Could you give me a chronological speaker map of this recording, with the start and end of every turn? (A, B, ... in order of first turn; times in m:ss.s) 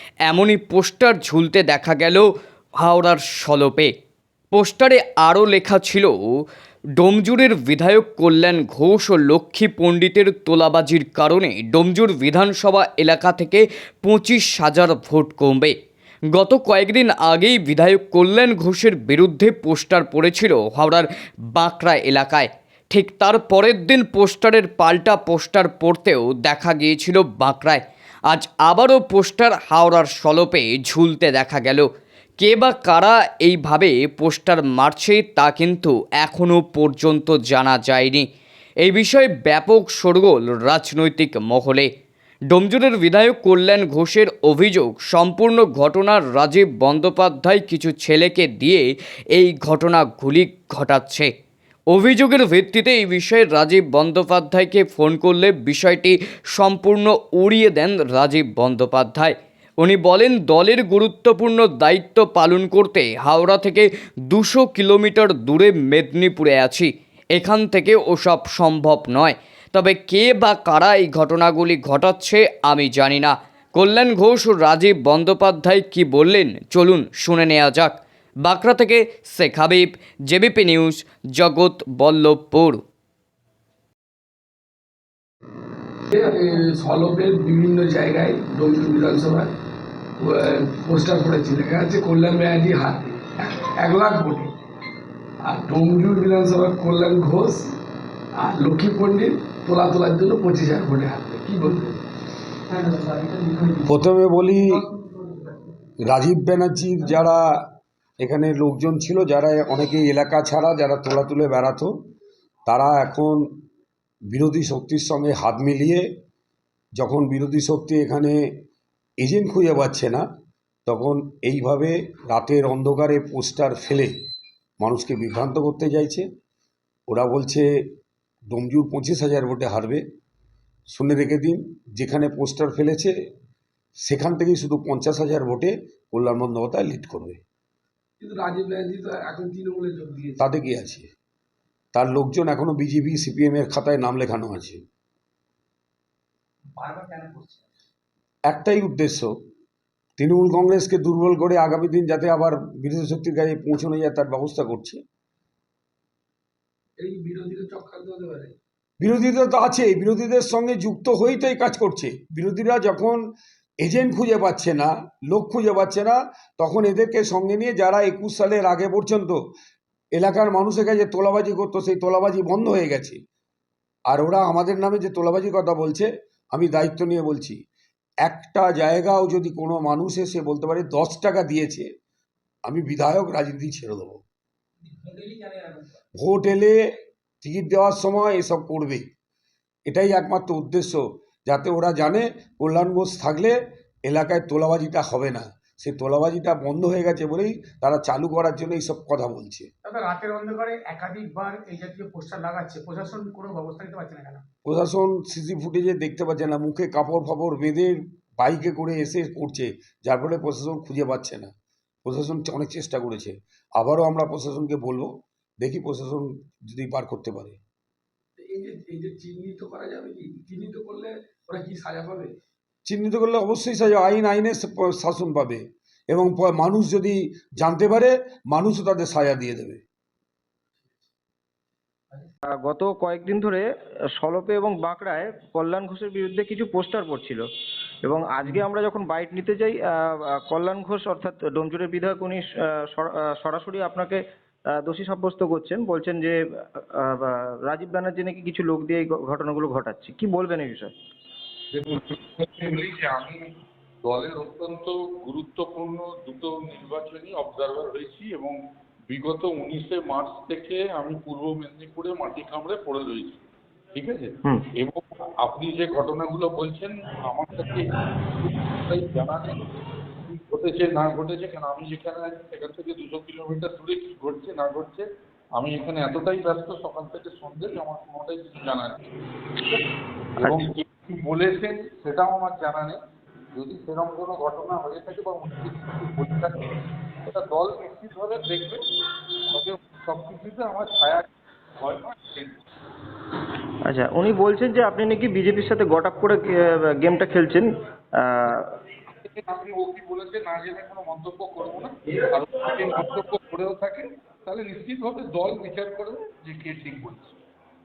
0:00.2-0:02.3 A
0:02.8-0:03.9 A
0:04.5-0:06.2 A
0:07.0-0:15.8 A
0:16.3-0:31.9 A
0:32.4-0:38.2 A
0:38.8-0:41.9 A
0:42.5-0:51.3 A
0:51.9-1:22.8 A
1:26.1-1:29.5 B
1:30.2-1:34.5 B
1:35.4-1:37.8 B
1:38.4-1:42.0 B
1:42.9-1:43.6 B
1:43.8-1:44.9 C
1:46.1-1:47.7 C
1:48.2-1:52.0 C
1:52.7-1:53.4 C
1:54.3-1:56.1 C
1:57.0-1:58.5 C
1:59.2-2:00.2 C
2:00.9-2:04.1 C
2:04.8-2:06.3 C
2:07.1-2:07.7 C
2:08.5-2:10.0 C
2:10.9-2:13.2 C
2:14.0-2:17.4 C
2:18.2-2:20.4 B
2:20.4-2:21.1 C
2:21.9-2:24.8 C
2:26.9-2:27.4 B
2:28.5-2:29.3 C
2:30.2-2:35.0 C
2:37.0-2:38.6 B
2:39.0-2:43.2 C
2:43.8-2:49.4 C
2:50.1-2:53.2 C
2:54.1-2:57.6 C
2:58.2-3:01.9 C
3:02.7-3:04.2 C
3:06.2-3:06.8 C
3:07.4-3:09.1 C
3:09.9-3:19.7 C
3:19.8-3:24.4 D
3:24.6-3:31.5 C
3:32.0-3:37.6 C
3:38.4-3:42.3 B
3:42.8-3:49.8 C
3:52.6-3:53.6 E
3:54.2-3:57.5 E
3:58.0-4:04.2 E
4:04.7-4:10.9 E
4:11.7-4:13.4 F
4:14.0-4:18.6 F
4:19.1-4:29.6 F
4:30.3-4:39.8 F
4:40.4-4:43.0 F
4:40.4-4:40.7 E
4:43.5-4:48.8 F
4:49.5-4:51.3 F
4:51.8-4:52.6 F
4:53.8-4:58.7 E
4:59.2-5:07.4 F